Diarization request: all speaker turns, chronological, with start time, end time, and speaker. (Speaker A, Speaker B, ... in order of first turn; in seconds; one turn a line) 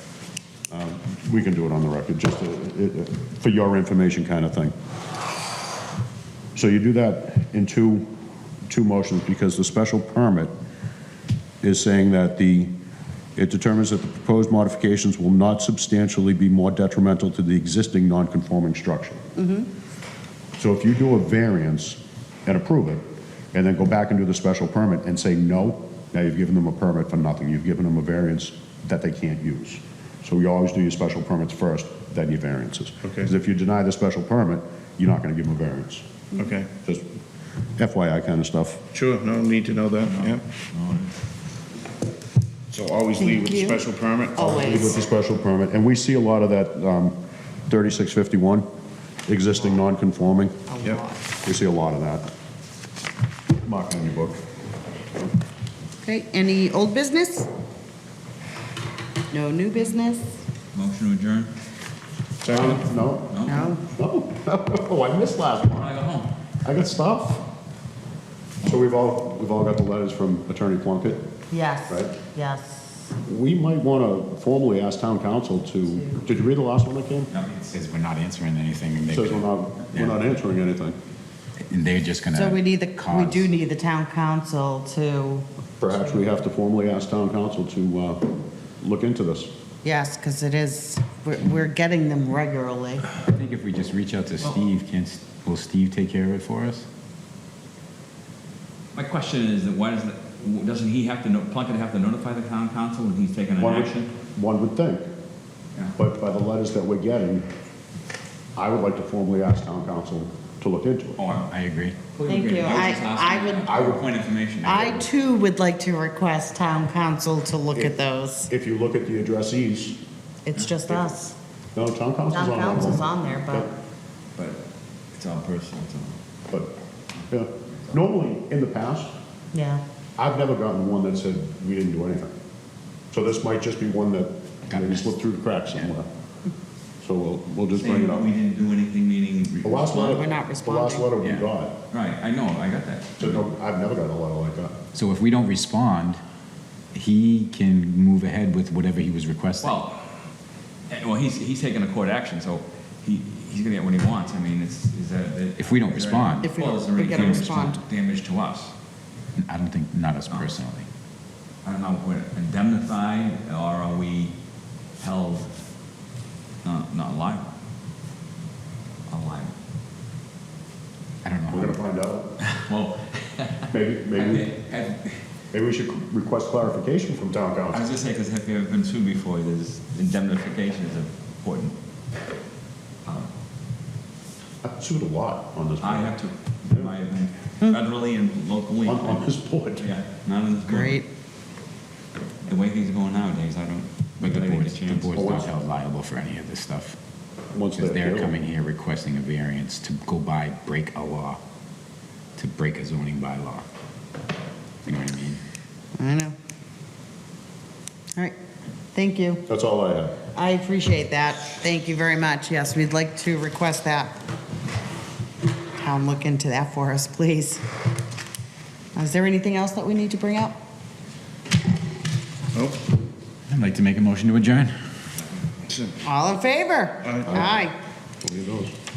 Speaker A: 0.7-4.7
Speaker A: 6.5-8.1
Speaker A: 8.7-10.5
Speaker A: 11.6-12.7
Speaker A: 13.4-19.2
Speaker B: 19.4-19.7
Speaker A: 20.6-23.0
Speaker A: 23.5-36.0
Speaker C: 33.0-33.3
Speaker C: 36.4-36.7
Speaker A: 36.8-37.0
Speaker A: 37.8-38.8
Speaker C: 38.9-40.4
Speaker D: 40.1-41.1
Speaker C: 42.7-44.7
Speaker B: 43.2-43.8
Speaker B: 44.4-45.0
Speaker A: 44.4-47.1
Speaker A: 47.7-48.6
Speaker A: 49.3-50.6
Speaker B: 50.7-51.2
Speaker A: 51.5-52.3
Speaker A: 53.6-54.4
Speaker B: 56.0-57.5
Speaker B: 59.3-60.3
Speaker D: 60.7-61.5
Speaker A: 62.4-66.0
Speaker D: 62.5-63.7
Speaker B: 63.5-63.8
Speaker D: 65.7-66.3
Speaker A: 66.6-67.4
Speaker A: 68.6-71.2
Speaker B: 71.5-73.1
Speaker A: 73.2-77.3
Speaker B: 75.9-76.2
Speaker D: 77.3-77.8
Speaker E: 77.7-80.2
Speaker A: 79.1-81.0
Speaker E: 81.7-83.5
Speaker B: 82.3-86.3
Speaker A: 85.8-88.2
Speaker A: 88.8-89.5
Speaker B: 89.8-93.1
Speaker E: 93.2-96.9
Speaker D: 99.0-104.1
Speaker A: 103.6-105.0
Speaker A: 106.0-107.5
Speaker A: 108.6-111.2
Speaker D: 111.2-111.5
Speaker E: 111.5-112.0
Speaker D: 112.1-115.0
Speaker B: 112.3-113.8
Speaker A: 113.6-114.1
Speaker B: 114.6-118.5
Speaker A: 117.7-120.0
Speaker B: 120.5-121.3
Speaker D: 120.5-121.0
Speaker A: 121.8-123.7
Speaker B: 122.3-123.7
Speaker D: 124.4-124.6
Speaker D: 125.1-126.2
Speaker A: 127.3-129.1
Speaker B: 129.5-129.8
Speaker A: 130.2-132.3
Speaker A: 133.1-136.1
Speaker E: 134.7-135.1
Speaker A: 137.0-138.3
Speaker D: 137.7-140.2
Speaker A: 139.6-141.8
Speaker B: 139.9-141.1
Speaker E: 141.2-141.5
Speaker D: 141.9-143.4
Speaker A: 143.2-144.7
Speaker E: 144.9-146.2
Speaker E: 146.9-149.8
Speaker D: 149.6-150.1
Speaker D: 150.9-158.7
Speaker E: 155.6-156.5
Speaker B: 156.4-157.8
Speaker E: 159.4-160.9
Speaker D: 160.3-160.6
Speaker D: 161.6-164.3
Speaker D: 165.0-165.5
Speaker D: 166.6-167.5
Speaker D: 169.1-169.5
Speaker E: 171.2-171.8
Speaker A: 171.5-172.3
Speaker D: 172.7-175.2
Speaker A: 173.7-174.5
Speaker A: 175.5-177.8
Speaker D: 177.7-181.8
Speaker D: 183.1-183.3
Speaker A: 184.6-186.2
Speaker D: 185.8-191.0
Speaker A: 188.8-189.9
Speaker B: 190.7-191.1
Speaker D: 192.5-195.4
Speaker E: 194.2-197.0
Speaker A: 195.1-195.5
Speaker A: 197.5-198.3
Speaker E: 197.8-201.4
Speaker E: 202.4-203.7
Speaker E: 204.8-205.4
Speaker B: 206.0-206.3
Speaker B: 208.9-209.4
Speaker A: 209.5-210.1
Speaker B: 210.3-214.2
Speaker B: 215.8-217.6
Speaker B: 218.9-220.6
Speaker C: 222.5-222.8
Speaker E: 223.5-224.7
Speaker B: 226.0-227.8
Speaker C: 227.0-227.3
Speaker A: 227.3-227.6
Speaker A: 228.2-228.7